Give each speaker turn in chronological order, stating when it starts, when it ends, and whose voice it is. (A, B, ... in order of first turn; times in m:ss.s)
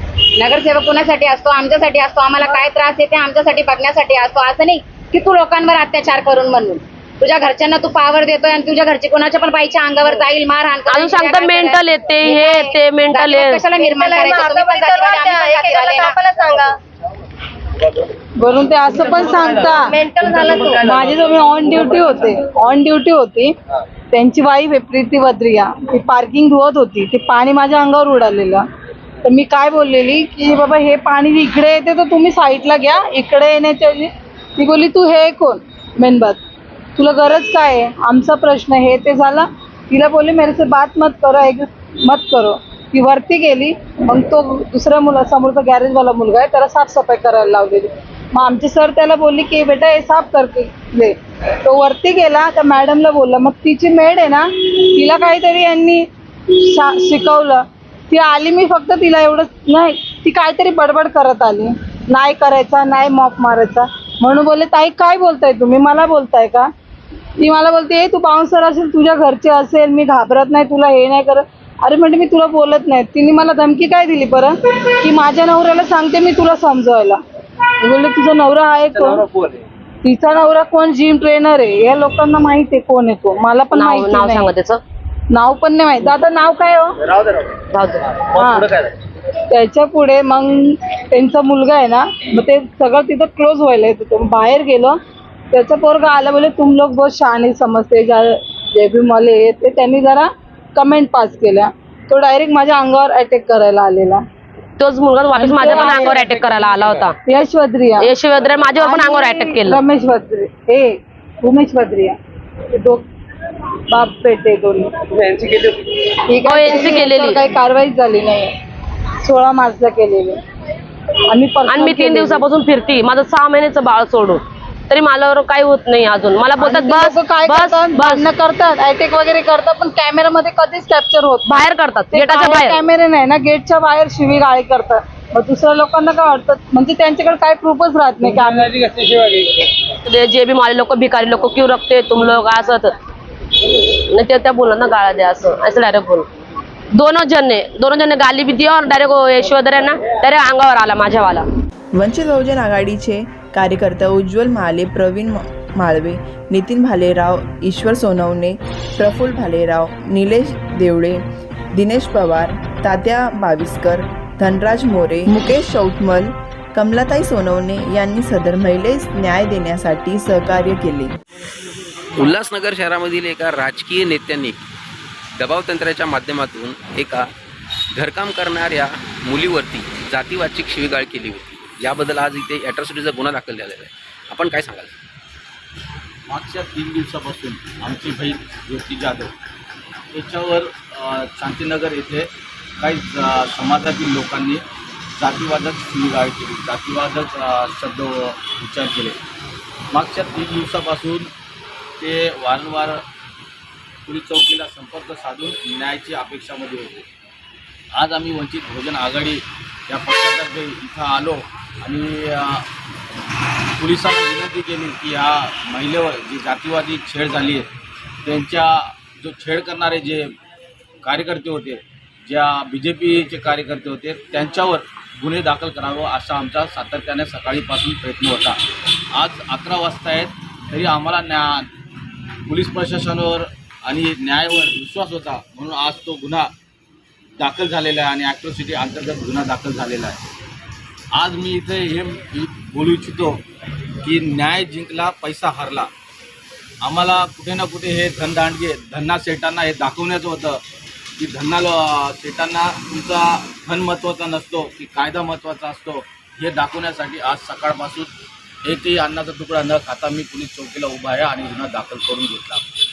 0:00.3-0:16.2 A
0:10.9-0:13.6 B
0:13.8-0:16.8 C
0:18.4-0:23.5 D
0:19.8-0:20.8 C
0:24.1-0:28.6 D
0:29.2-0:36.4 D
0:37.0-1:06.7 D
1:07.4-1:17.2 D
1:17.8-1:19.2 D
1:20.0-1:24.5 D
1:23.7-1:24.8 B
1:25.3-1:27.0 D
1:27.7-1:28.2 B
1:28.3-1:28.7 D
1:29.5-1:35.0 D
1:35.5-1:44.2 D
1:44.8-1:47.2 B
1:45.4-1:46.2 D
1:47.2-1:48.1 D
1:48.0-1:49.8 B
1:48.8-1:52.2 D
1:52.7-1:53.0 D
1:53.9-1:58.5 D
1:56.4-1:57.4 B
1:59.2-2:00.4 D
2:01.3-2:02.4 D
2:01.7-2:08.3 B
2:06.6-2:11.5 D
2:11.5-2:12.8 B
2:12.1-2:19.1 D
2:20.0-2:22.9 B
2:23.7-2:26.3 B
2:26.9-2:31.4 B
2:31.9-2:41.2 E
2:41.7-2:51.1 E
2:52.2-2:54.6 F
2:55.4-2:57.3 F
2:57.9-3:04.9 F
3:06.3-3:09.3 G
3:10.1-3:14.6 G
3:15.1-3:19.2 G
3:19.9-3:21.3 G
3:22.0-3:23.0 G
3:24.0-3:27.0 G
3:27.9-3:32.7 G
3:33.8-3:37.7 G
3:38.2-3:40.3 G
3:41.0-3:48.6 G
3:49.1-3:51.7 G
3:52.4-3:56.5 G
3:57.4-4:00.2 G
4:01.1-4:03.4 G
4:04.0-4:05.9 G
4:06.8-4:10.6 G
4:11.2-4:18.1 G
4:18.6-4:22.6 G